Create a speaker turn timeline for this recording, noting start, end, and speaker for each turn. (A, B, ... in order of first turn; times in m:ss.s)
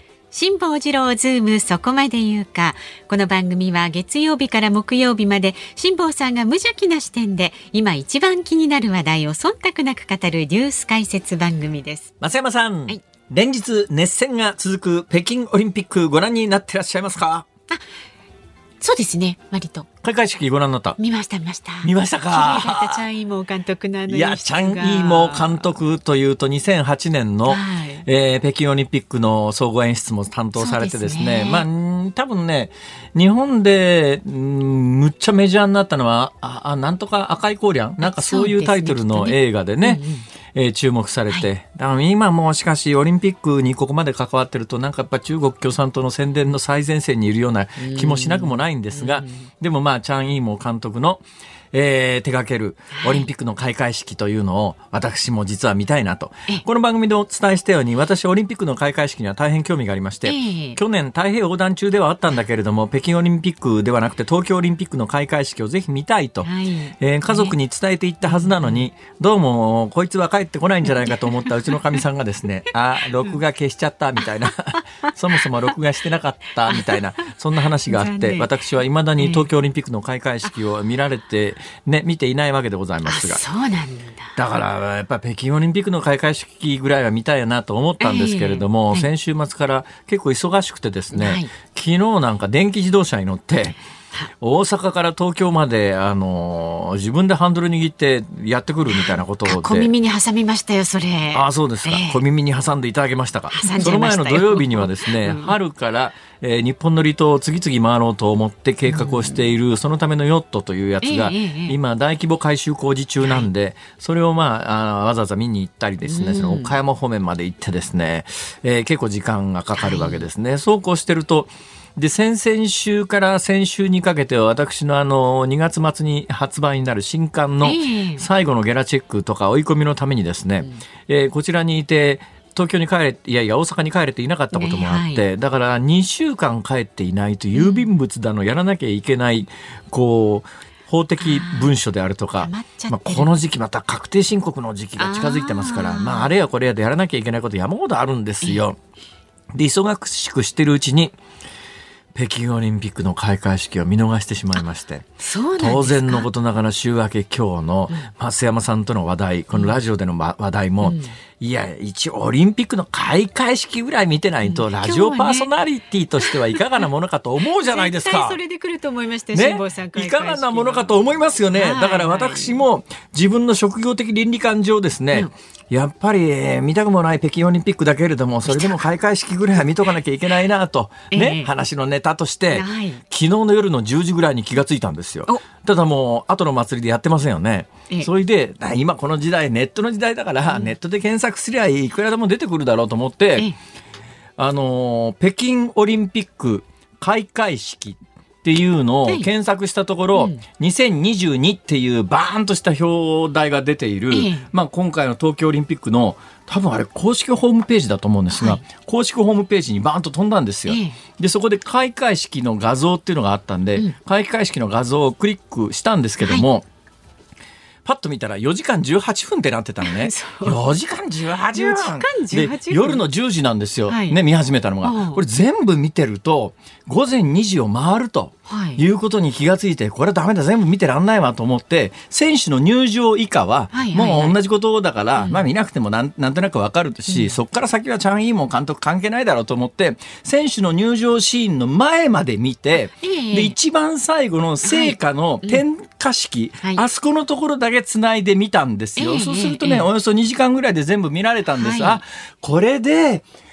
0:00.3-0:12.1 A
0:12.2-0:17.5 B
0:18.8-0:19.9 A
0:20.0-0:21.0 B
0:21.0-0:25.7 A
0:21.8-0:23.0 B
0:24.1-1:23.4 B
0:27.5-0:28.0 A
0:30.6-0:31.7 A
0:38.0-0:40.3 A
0:47.8-0:49.4 A
0:53.0-0:53.3 A
1:00.2-1:00.8 A
1:06.4-1:07.5 A
1:08.2-1:08.8 A
1:16.7-1:17.0 A
1:17.9-1:18.5 A
1:19.2-1:19.4 A
1:23.1-1:24.3 A
1:24.4-1:33.8 B
1:28.0-1:29.1 A
1:31.1-1:31.5 A
1:34.4-1:39.9 B
1:38.9-1:42.2 A
1:41.3-2:28.8 B
1:43.5-1:45.6 A
1:48.9-1:49.4 A
1:51.0-1:51.8 A
1:56.0-1:56.7 A
1:59.8-2:00.3 A
2:07.6-2:08.2 A
2:14.5-2:15.2 A
2:17.6-2:17.9 A
2:21.2-2:21.7 A
2:22.4-2:23.3 A
2:25.0-2:26.3 A
2:29.5-2:31.1 B
2:32.1-2:48.4 B
2:35.2-2:36.3 A
2:40.8-2:41.1 A
2:44.4-2:45.5 A
2:46.3-2:46.6 A
2:47.6-2:50.9 A
2:49.3-3:13.5 B
2:51.5-2:52.6 A
2:58.5-2:58.9 A
3:01.1-3:01.5 A
3:02.5-3:03.0 A
3:14.4-3:36.6 B
3:20.1-3:20.4 A
3:24.1-3:24.5 A
3:28.3-3:28.6 A
3:30.7-3:31.0 A
3:37.8-4:13.2 B
3:39.8-3:40.6 A
3:41.6-3:43.0 A
3:43.9-3:44.2 A
3:44.8-3:45.2 A
3:48.5-3:48.8 A
3:53.7-3:54.4 A
3:55.2-3:55.5 A
3:57.1-3:57.4 A
4:03.0-4:03.5 A
4:04.6-4:05.6 A
4:09.0-4:09.9 A
4:11.6-4:12.0 A